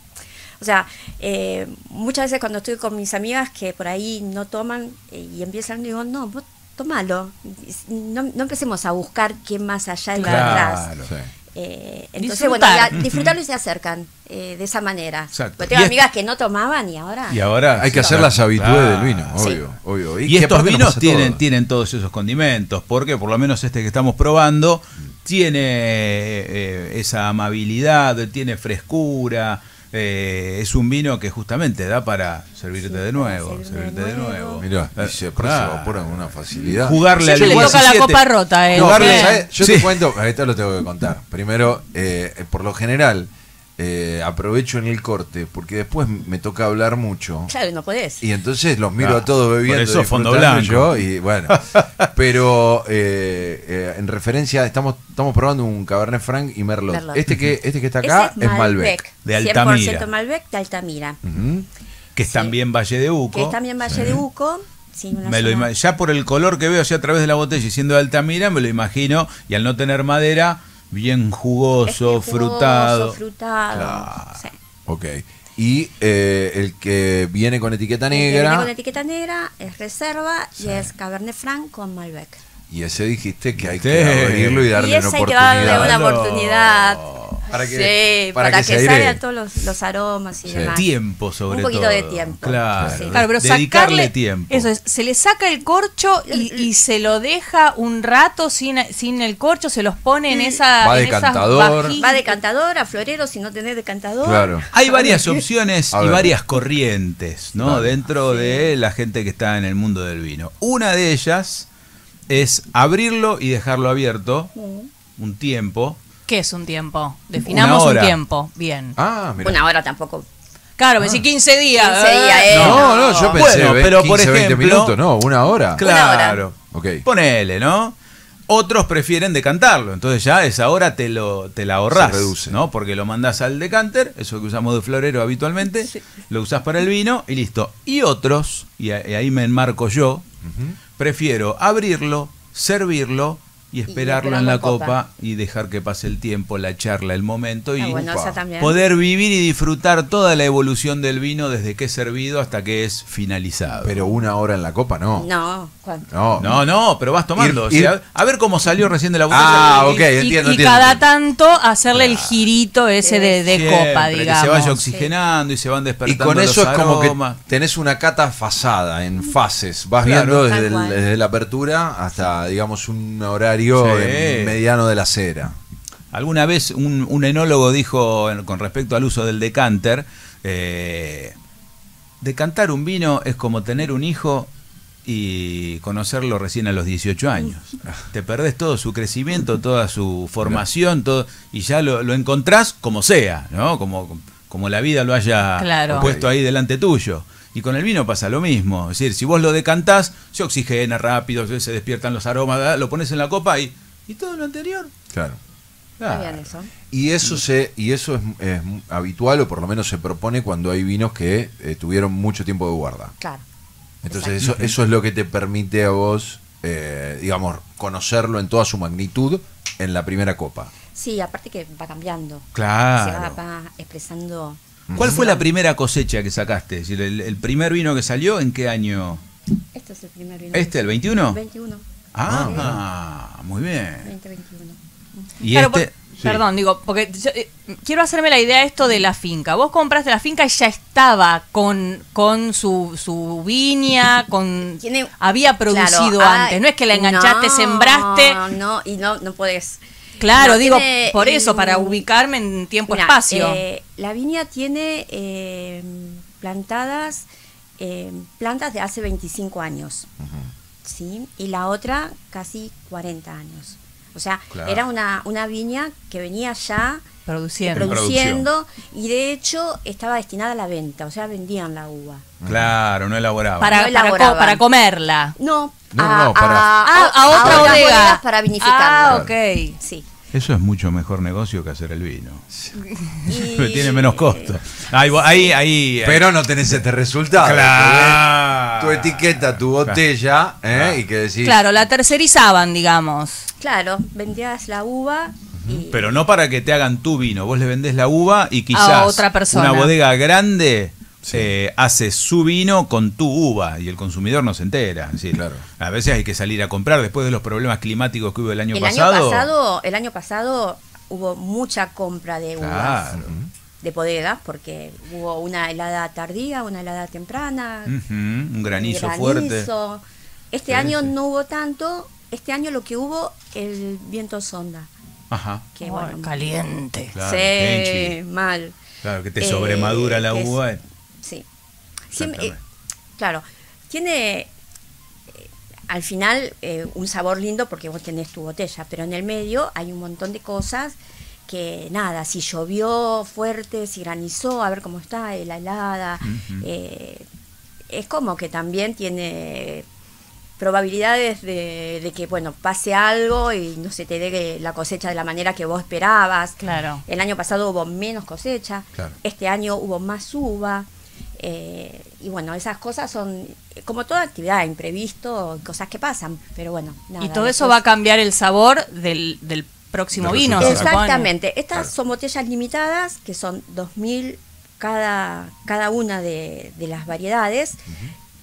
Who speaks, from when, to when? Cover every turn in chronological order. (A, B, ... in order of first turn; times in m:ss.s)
0:00.6-0:10.9 A
0:10.1-0:10.7 B
0:10.2-0:11.1 C
0:11.0-0:11.3 D
0:11.5-0:18.3 A
0:12.2-0:12.9 B
0:12.9-0:13.3 C
0:15.3-0:16.0 C
0:17.3-0:19.5 C
0:17.8-0:21.4 D
0:19.4-0:19.6 A
0:20.2-0:40.1 C
0:32.8-0:34.6 A
0:34.6-0:38.0 D
0:37.2-0:39.4 B
0:38.7-0:47.5 D
0:47.5-0:48.2 A
0:48.2-0:59.0 D
0:49.0-0:52.0 C
0:56.9-0:57.2 A
0:58.0-1:01.2 A
0:59.2-1:00.1 C
1:01.2-1:01.7 D
1:02.2-1:04.2 C
1:02.2-1:02.5 A
1:03.3-1:05.7 A
1:03.9-1:04.2 D
1:05.2-1:13.2 C
1:11.8-1:14.6 A
1:13.7-1:14.1 D
1:13.8-1:14.4 C
1:14.8-1:18.7 D
1:18.1-1:22.4 A
1:20.6-1:20.9 D
1:22.7-1:26.0 D
1:23.6-1:24.7 C
1:24.7-1:30.9 A
1:25.4-1:27.4 C
1:27.5-1:29.2 D
1:30.5-1:30.8 D
1:30.7-1:34.7 C
1:31.5-1:33.2 A
1:32.8-1:33.0 D
1:33.1-1:42.4 B
1:36.3-1:36.7 A
1:40.3-1:40.6 A
1:40.8-1:41.9 D
1:42.0-1:45.4 A
1:44.2-1:44.6 D
1:44.7-1:51.7 C
1:45.9-1:46.3 D
1:47.6-1:48.0 D
1:48.2-1:48.7 A
1:52.3-1:54.5 C
1:54.5-1:54.9 A
1:55.2-1:56.0 C
1:56.3-1:58.9 B
1:57.4-1:58.2 C
1:59.0-1:59.6 D
1:59.4-2:00.2 A
2:00.8-2:03.0 B
2:01.8-2:03.4 A
2:02.5-2:05.8 D
2:02.5-2:02.8 C
2:03.3-2:05.0 C
2:05.8-2:08.0 C
2:05.8-2:06.4 A
2:06.7-2:07.0 D
2:08.5-2:20.2 C
2:11.9-2:12.6 D
2:20.4-2:20.8 D
2:21.0-2:34.1 C
2:23.9-2:25.0 A
2:27.8-2:28.8 A
2:27.9-2:28.4 D
2:33.8-2:35.3 D
2:35.2-2:36.1 A
2:36.1-2:36.6 D
2:36.4-2:40.1 C
2:37.4-2:37.9 D
2:39.3-2:41.0 D
2:40.1-2:44.8 B
2:41.9-2:42.4 D
2:43.0-2:43.6 A
2:43.5-2:47.4 C
2:44.8-2:45.1 A
2:46.0-2:55.6 D
2:50.0-2:50.4 C
2:50.4-2:51.0 A
2:53.8-2:54.6 C
2:56.1-3:01.3 C
3:02.2-3:04.5 C
3:05.0-3:24.9 C
3:15.6-3:16.1 B
3:15.9-3:16.3 D
3:25.1-3:25.4 D
3:26.0-3:26.5 C
3:26.1-3:26.7 A
3:26.9-3:33.1 D
3:33.2-3:33.4 A
3:34.0-3:40.7 D
3:34.1-3:34.4 A
3:34.4-3:34.7 C
3:40.9-3:45.5 A
3:42.5-3:43.4 C
3:44.9-3:45.2 D
3:45.0-3:49.2 C
3:49.7-3:52.8 A
3:50.5-3:51.4 C
3:52.1-3:54.1 C
3:52.2-3:52.8 D
3:54.0-3:55.3 A
3:55.4-3:56.4 C
3:55.5-4:08.4 B
4:04.8-4:05.1 A
4:05.7-4:09.8 A
4:10.2-4:13.6 B
4:10.3-4:12.0 A
4:12.9-4:17.3 A
4:17.8-4:20.1 A
4:20.2-4:20.5 D
4:20.8-4:27.0 A
4:24.5-4:24.8 C
4:27.2-4:27.9 B
4:27.7-4:28.4 C
4:27.7-4:32.2 A
4:32.4-4:32.7 D
4:32.5-4:33.8 C
4:33.6-4:35.3 B
4:33.7-4:34.6 A
4:35.4-4:40.1 A
4:35.9-4:37.8 D
4:36.4-4:39.8 B
4:37.4-4:37.8 C
4:40.3-4:42.4 C
4:42.5-4:42.8 D
4:43.2-4:44.6 A
4:43.2-4:46.3 C
4:45.2-4:45.5 A
4:46.0-4:51.6 D
4:47.3-4:50.0 C
4:50.7-4:51.0 C
4:51.4-4:53.5 B
4:53.6-4:56.2 A
4:55.5-4:55.8 D
4:55.9-5:09.5 C
4:58.7-4:59.9 B
5:01.2-5:01.5 D
5:05.3-5:05.6 D
5:08.7-5:13.2 A
5:12.6-5:13.3 C
5:13.1-5:13.5 D
5:13.8-5:17.9 A
5:17.8-5:19.7 C
5:18.8-5:24.9 A
5:20.7-5:21.1 C
5:25.3-5:25.6 C
5:25.7-5:26.6 A
5:25.8-5:27.1 B
5:27.1-5:28.2 C
5:27.2-5:28.8 A
5:29.0-5:30.8 C
5:29.4-5:30.6 A
5:32.1-5:32.5 A
5:32.1-5:32.6 C
5:33.2-5:34.5 A
5:35.3-5:47.2 A
5:46.2-5:46.7 C
5:47.9-5:49.8 A
5:50.6-6:07.8 A
5:56.6-5:57.0 B
6:07.2-6:11.3 B
6:10.2-6:10.9 D
6:10.6-6:17.8 A
6:17.9-6:18.1 D